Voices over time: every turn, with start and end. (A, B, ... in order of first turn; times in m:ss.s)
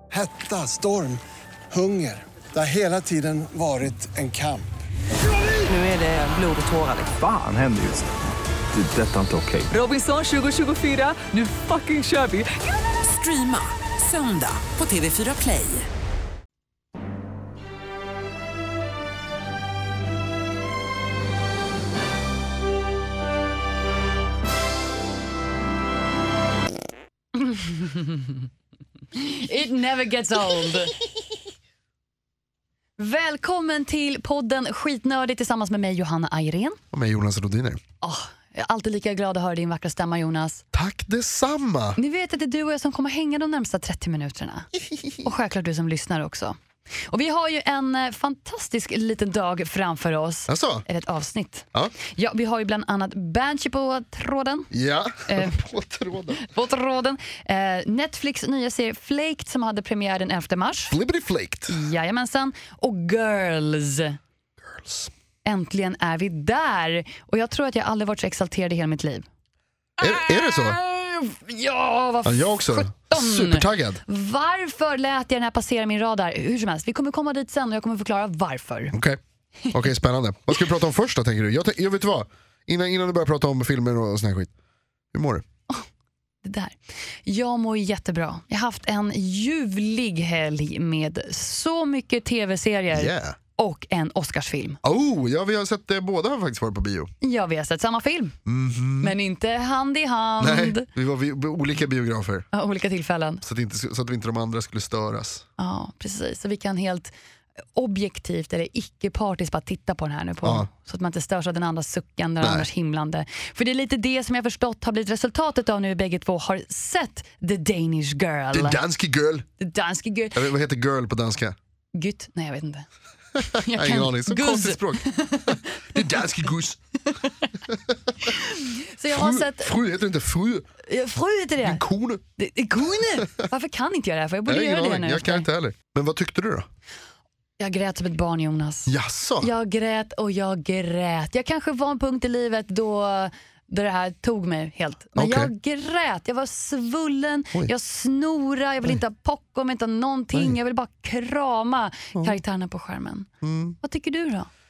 0:00.1-0:01.2 A
0:01.7-0:04.7 A
0:05.6-0:07.2 B
0:07.2-0:08.1 C
0:08.7-0:09.7 C
0:09.7-0:15.9 B
0:27.4-0:28.3 D
0:29.1-0:30.9 D
0:33.0-0:36.8 D
0:36.9-0:37.8 E
0:38.0-0:40.6 D
0:40.7-0:42.0 E
0:42.0-0:44.7 D
0:44.9-0:45.2 E
0:45.2-0:46.6 D
0:47.1-0:54.7 D
0:50.5-0:50.8 E
0:54.7-0:56.4 E
0:55.3-0:55.5 D
0:56.4-1:01.0 D
1:00.9-1:01.8 E
1:01.7-1:04.2 D
1:04.6-1:05.1 E
1:05.4-1:09.2 D
1:10.0-1:10.8 E
1:10.0-1:18.9 D
1:12.2-1:14.0 E
1:18.9-1:19.2 E
1:19.7-1:24.5 E
1:25.1-1:25.4 E
1:26.4-1:34.8 D
1:32.9-1:33.4 E
1:34.8-1:37.1 E
1:37.2-1:38.4 D
1:38.4-1:39.1 E
1:39.0-1:40.9 D
1:40.4-1:42.5 E
1:42.5-1:43.4 D
1:43.4-1:45.4 E
1:45.6-1:47.1 D
1:47.7-1:58.8 D
1:50.4-1:50.7 E
1:52.4-1:52.7 E
1:58.5-1:59.5 E
1:59.6-2:00.5 D
2:00.3-2:01.6 E
2:01.9-2:02.9 D
2:03.4-2:06.0 D
2:03.4-2:06.8 E
2:07.1-2:07.5 D
2:07.7-2:08.3 E
2:08.2-2:09.7 D
2:09.1-2:10.6 E
2:10.8-2:11.8 D
2:11.6-2:12.2 E
2:12.4-2:15.4 D
2:14.4-2:16.7 E
2:17.6-2:33.3 D
2:18.9-2:19.5 E
2:25.2-2:25.5 E
2:33.4-2:33.8 E
2:33.8-2:34.5 D